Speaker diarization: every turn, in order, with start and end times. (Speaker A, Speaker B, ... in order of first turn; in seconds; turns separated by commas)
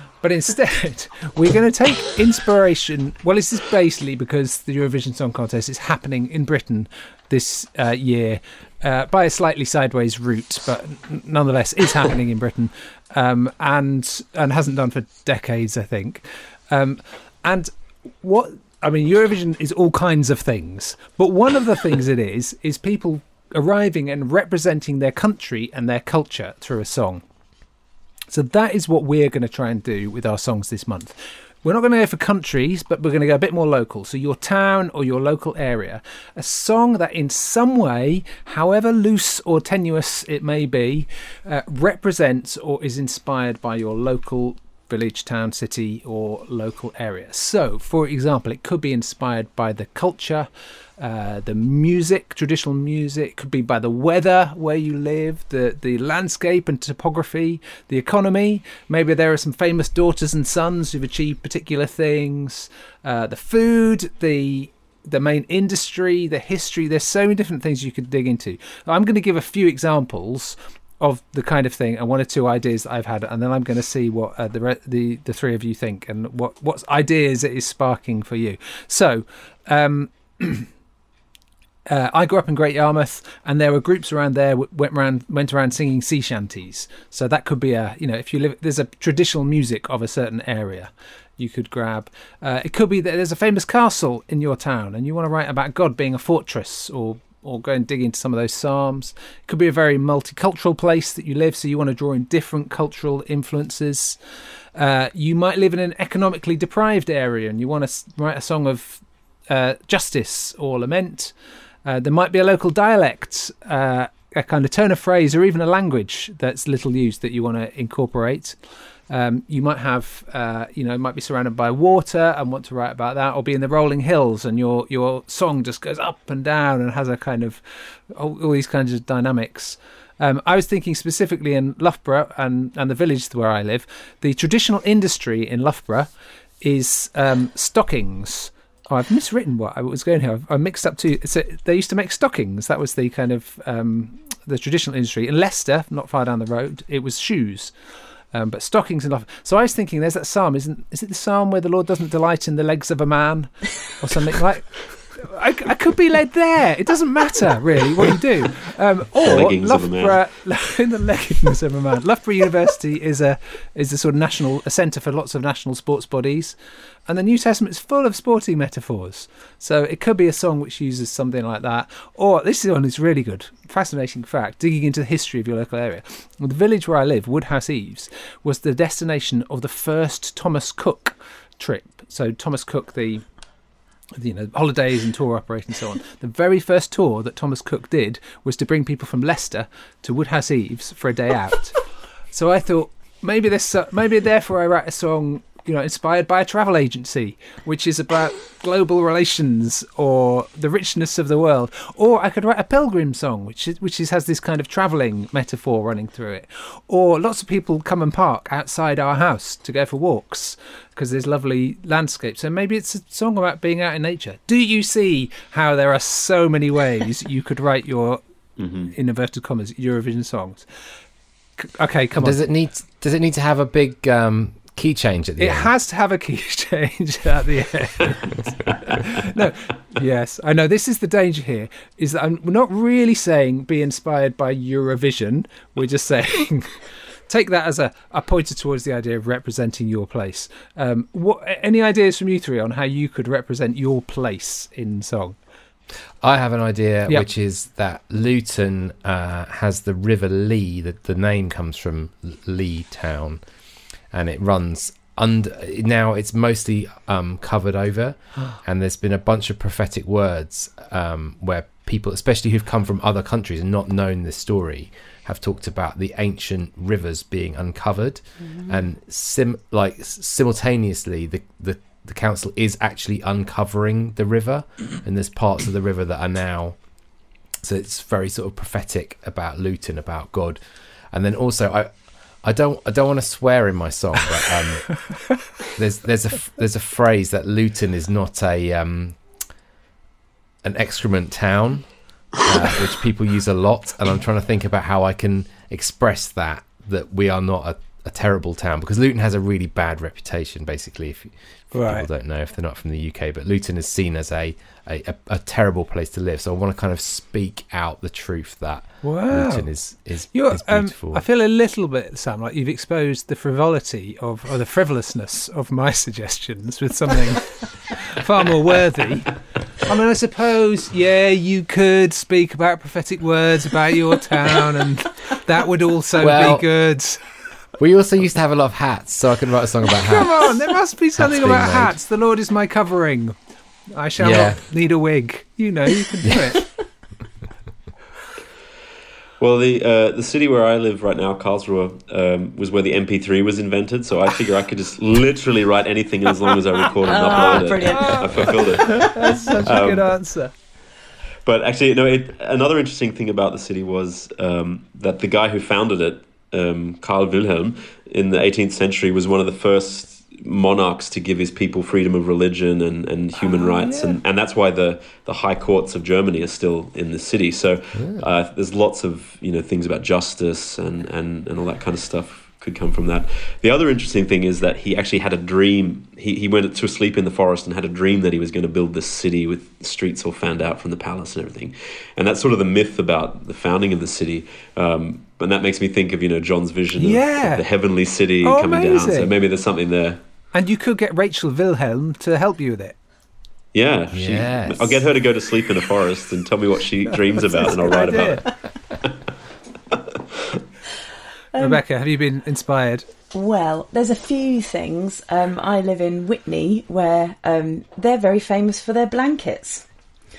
Speaker A: 0.2-17.7, Speaker A: 18.2-27.2, Speaker A: 28.3-80.7, Speaker A: 81.9-104.2, Speaker A: 104.7-111.3, Speaker A: 111.8-118.6, Speaker A: 119.1-147.7, Speaker A: 148.3-183.2, Speaker B: 159.2-160.2, Speaker A: 184.1-218.2, Speaker B: 218.6-218.9, Speaker A: 218.9-220.7, Speaker A: 221.6-222.4, Speaker C: 222.2-225.7, Speaker A: 225.4-245.4, Speaker C: 246.2-253.4, Speaker C: 254.1-276.8, Speaker C: 277.6-280.6, Speaker C: 281.1-285.2, Speaker C: 285.7-289.4, Speaker C: 290.6-311.2, Speaker A: 301.7-302.1, Speaker A: 309.0-327.2, Speaker C: 326.2-326.7, Speaker C: 327.8-330.6, Speaker A: 329.9-333.3, Speaker C: 331.1-331.9, Speaker A: 333.9-336.6, Speaker C: 334.2-334.6, Speaker B: 339.4-349.1, Speaker D: 347.0-349.1, Speaker A: 347.9-348.2, Speaker A: 348.9-350.5, Speaker B: 349.6-350.2, Speaker B: 351.4-390.2, Speaker A: 363.4-364.2, Speaker C: 367.9-368.2, Speaker A: 387.0-387.6, Speaker A: 388.4-389.3, Speaker A: 390.5-393.0, Speaker B: 393.7-398.5, Speaker C: 394.1-395.0, Speaker A: 397.5-398.4, Speaker D: 401.5-401.8, Speaker A: 401.6-403.0, Speaker D: 403.3-409.9